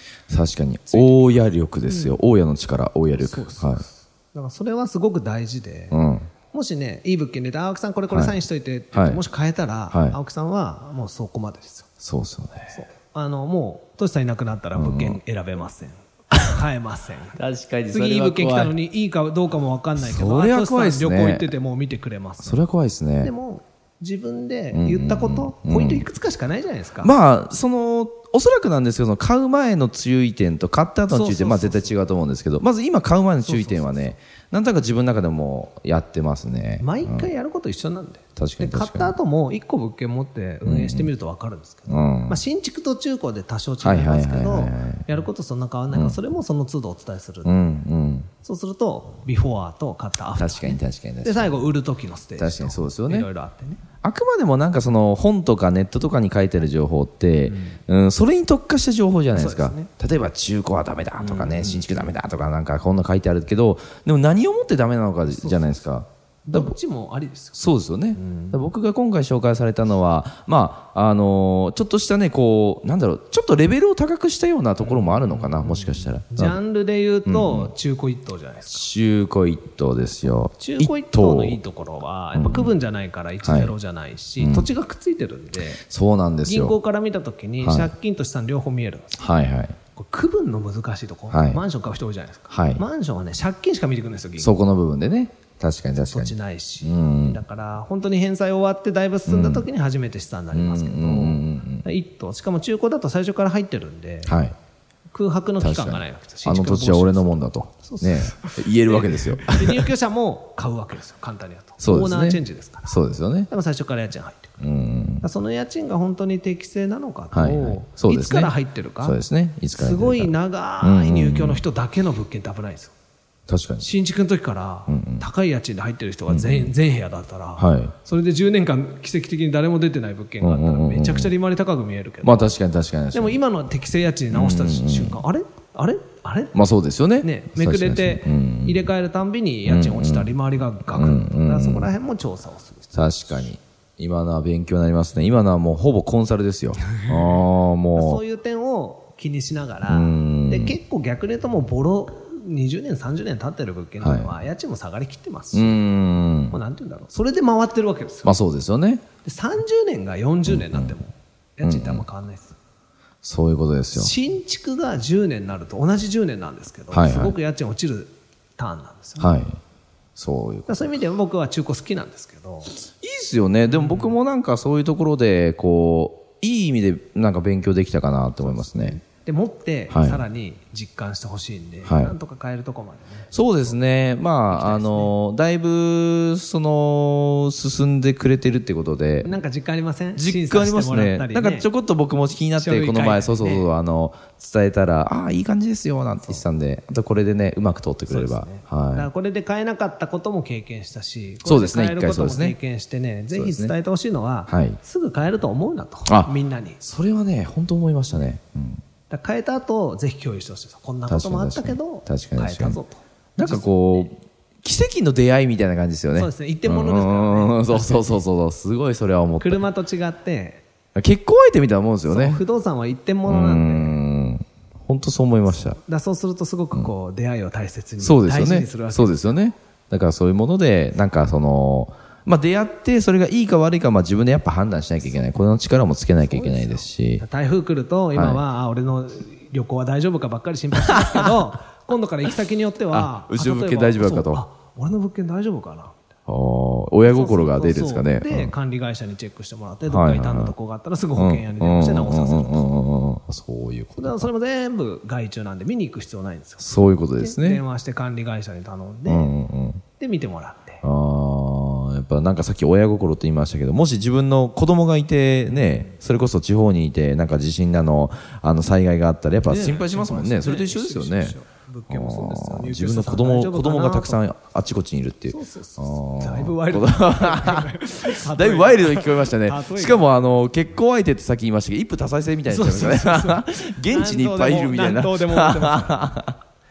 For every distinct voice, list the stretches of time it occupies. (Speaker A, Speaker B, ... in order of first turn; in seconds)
Speaker A: 0.3-3.9, 5.9-6.3, 8.1-8.4, 8.9-9.2, 9.9-10.2, 12.0-12.8, 14.8-15.2, 17.4-18.7, 20.0-21.5, 22.4-23.3, 24.7-26.1, 27.0-37.3, 38.4-39.1, 40.6-41.1, 41.9-42.4, 43.8-45.2, 45.9-46.2, 47.5-48.3, 50.4-51.6, 52.4-53.3, 54.0-66.8, 67.5-76.6, 77.3-77.7, 78.7-81.6, 82.3-82.7, 83.4-83.7, 84.4-84.7, 85.8-86.8, 87.6-87.9, 89.2-89.8, 91.3-91.6, 92.5-92.8, 94.4-97.4, 99.3-99.7, 100.5-101.9, 104.2-104.5, 105.6-109.9, 111.8-113.5, 114.6-115.3, 117.3-121.6, 123.5-123.9, 124.9-125.3, 126.3-126.7, 127.6-127.9, 130.4-131.3, 132.2-133.4, 134.3-135.2, 136.5-138.9, 139.7-140.3, 140.9-141.9, 142.9-148.2, 149.9-150.8, 154.0-154.3, 155.5-156.6, 158.2-159.0, 160.5-161.0, 161.6-162.1, 163.2-164.1, 166.9-167.4, 169.2-169.6, 170.2-171.0, 173.0-179.0, 179.9-180.2, 181.8-182.1, 183.3-189.4, 190.2-199.1, 201.4-202.6, 203.3-203.7, 204.5-204.8, 206.1-208.8, 211.1-212.8, 213.4-219.7, 220.9-222.4, 223.2-225.8, 228.0-237.2, 238.1-238.4, 240.8-241.3, 242.9-244.4, 246.3-248.5, 249.9-250.6, 251.2-254.3, 256.6-257.6, 259.1-259.8, 260.8-271.4, 271.9-286.4
Speaker B: 0.9-2.2, 3.2-6.0, 6.5-11.9, 12.7-17.4, 17.9-22.6, 23.2-27.1, 31.1-32.0, 33.4-34.2, 36.8-47.6, 48.4-53.8, 57.5-57.8, 59.3-59.9, 61.2-62.0, 65.4-65.8, 66.5-67.6, 68.2-68.6, 74.8-78.9, 80.6-85.8, 86.5-89.2, 89.9-94.6, 96.0-104.4, 105.1-113.0, 113.5-114.6, 115.2-119.2, 119.8-122.9, 123.8-132.6, 133.1-136.7, 137.2-143.5, 147.9-155.8, 156.5-158.4, 159.2-162.6, 163.9-169.3, 170.7-172.8, 173.7-174.2, 178.4-183.8, 184.5-185.1, 189.2-191.7, 192.6-193.7, 198.1-206.8, 209.1-213.7, 216.2-218.2, 219.4-220.6, 222.1-224.0, 225.8-229.4, 236.2-246.1, 247.1-252.8, 254.0-259.4, 260.0-260.8, 265.5-265.9, 269.4-274.2, 275.3-280.1, 282.5-286.2